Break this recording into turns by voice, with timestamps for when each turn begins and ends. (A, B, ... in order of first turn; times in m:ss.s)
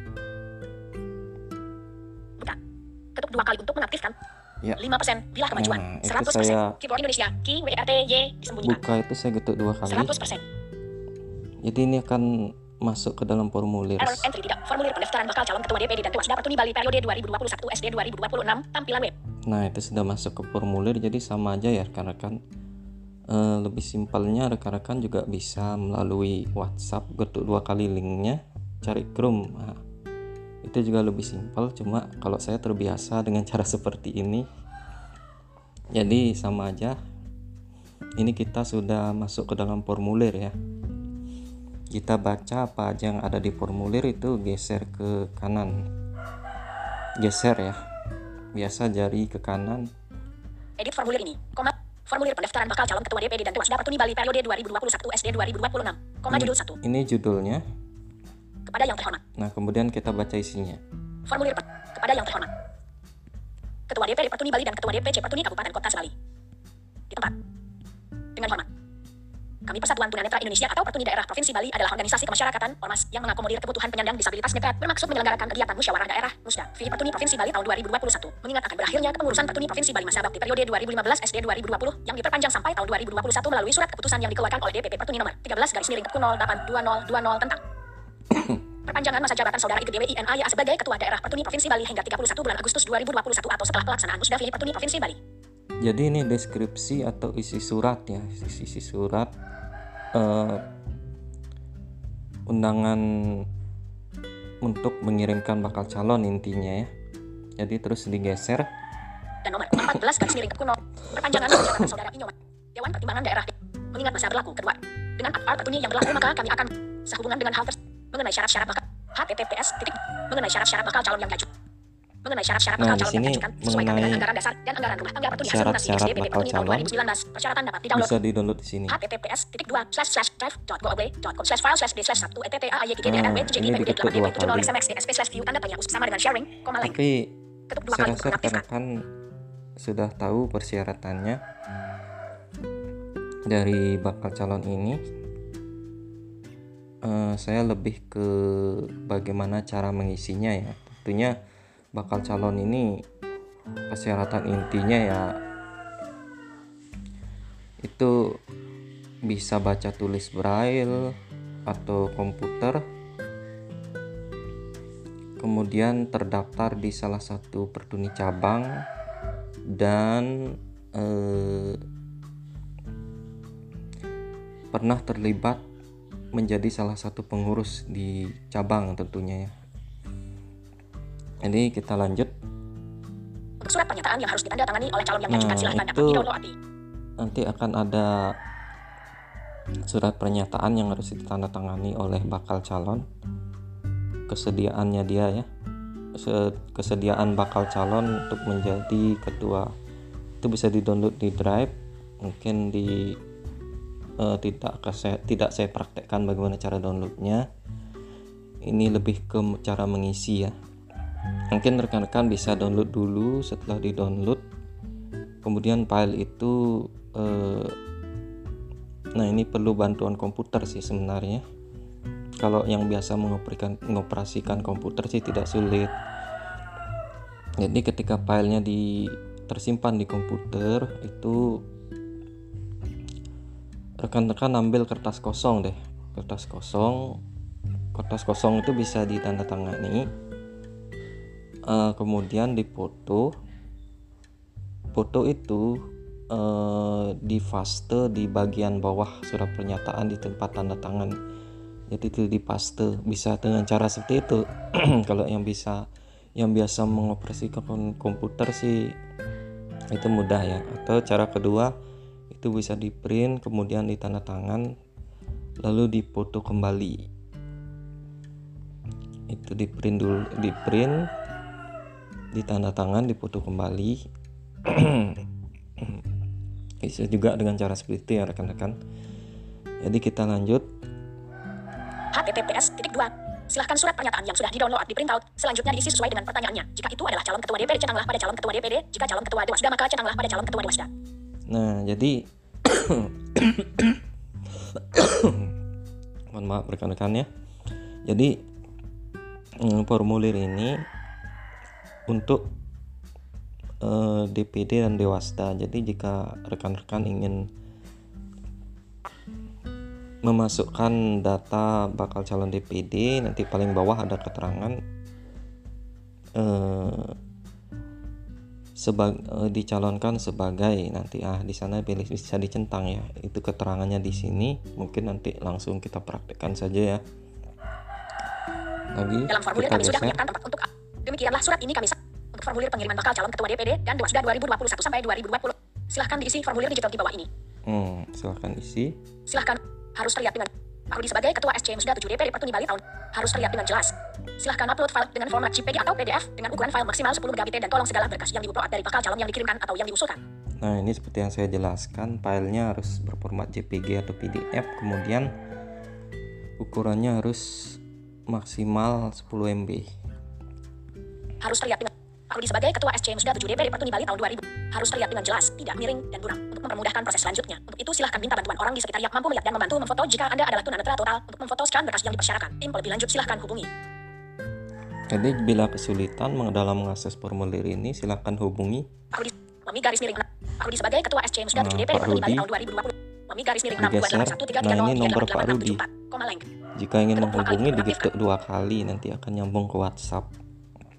0:03.1-0:04.2 A
0:04.8-0:08.8 A
0:05.5-0:06.8 B
0:08.6-0:10.2 B
0:09.8-0:10.4 A
0:11.6-0:14.3 B
0:14.0-0:19.1 A
0:19.5-0:22.4 B
0:23.3-0:29.8 B
0:30.6-0:34.4 B
0:35.9-0:37.0 B
0:38.2-0:40.5 B
0:41.9-0:45.7 B
0:47.2-0:47.8 B
0:48.5-0:49.9 B
0:50.8-0:56.8 A
0:56.3-0:57.6 B
0:58.6-0:59.2 A
0:59.4-1:00.8 B
1:01.3-1:02.5 A
1:03.9-1:06.1 A
1:08.4-1:08.7 A
1:09.7-1:27.6 A
1:28.3-1:28.6 B
1:28.9-1:35.2 A
1:35.8-1:39.3 B
1:40.1-1:40.6 B
1:42.5-1:43.5 B
1:44.6-1:46.9 B
1:47.6-1:48.7 B
1:49.4-2:01.5 A
1:51.1-1:51.9 B
2:02.2-2:08.1 A
2:02.8-2:04.2 B
2:05.4-2:06.9 B
2:07.9-2:09.0 B
2:08.9-2:17.0 A
2:13.0-2:14.7 B
2:16.8-2:17.3 B
2:17.7-2:18.6 A
2:17.9-2:18.9 B
2:19.8-2:21.4 B
2:23.5-2:25.0 B
2:27.0-2:31.3 B
2:31.9-2:32.9 B
2:33.9-2:35.3 B
2:37.8-2:38.4 B
2:39.3-2:41.0 B
2:41.7-2:42.8 B
2:45.4-2:48.8 B
2:49.7-2:51.8 B
2:54.7-2:55.6 B
2:56.3-2:59.5 B
3:01.4-3:02.3 B
3:03.6-3:06.5 A
3:05.3-3:06.3 B
3:07.2-3:08.2 B
3:09.8-3:13.0 B
3:14.3-3:15.5 B
3:16.1-3:19.7 B
3:20.4-3:23.2 B
3:24.2-3:27.4 B
3:28.7-3:30.5 B
3:31.5-3:34.4 B
3:35.4-3:37.8 B
3:39.2-3:41.4 B
3:42.4-3:45.9 B
3:47.6-3:51.6 B
3:54.0-3:57.2 B
3:57.9-4:00.1 B
4:01.7-4:03.3 B
4:04.9-4:05.7 B
4:06.3-4:11.1 B
4:11.9-4:15.8 B
4:16.4-4:18.9 B
4:19.9-4:21.7 B
4:22.3-4:24.7 B
4:25.6-4:27.0 B
4:29.3-4:31.0 B
4:32.3-4:34.0 B
4:34.6-4:35.2 B
4:35.8-4:36.0 B
4:36.8-4:38.7 B
4:39.8-4:40.6 B
4:42.1-4:50.9 A
4:51.5-4:55.5 B
4:56.3-4:57.3 B
4:58.0-4:58.4 B
4:59.6-5:00.8 B
5:02.1-5:02.5 B
5:03.8-5:07.4 B
5:10.2-5:14.8 B
5:16.4-5:17.2 B
5:18.8-5:27.0 B
5:28.9-5:30.2 B
5:29.3-5:37.3 A
5:37.6-5:39.0 B
5:39.3-5:50.2 A
5:50.6-5:55.3 B
5:56.6-5:59.9 B
6:01.4-6:13.7 A
6:15.1-6:18.8 B
6:19.1-6:26.4 A
6:21.5-6:22.5 B
6:23.8-6:25.8 B
6:26.8-6:30.3 B
6:27.1-6:28.1 A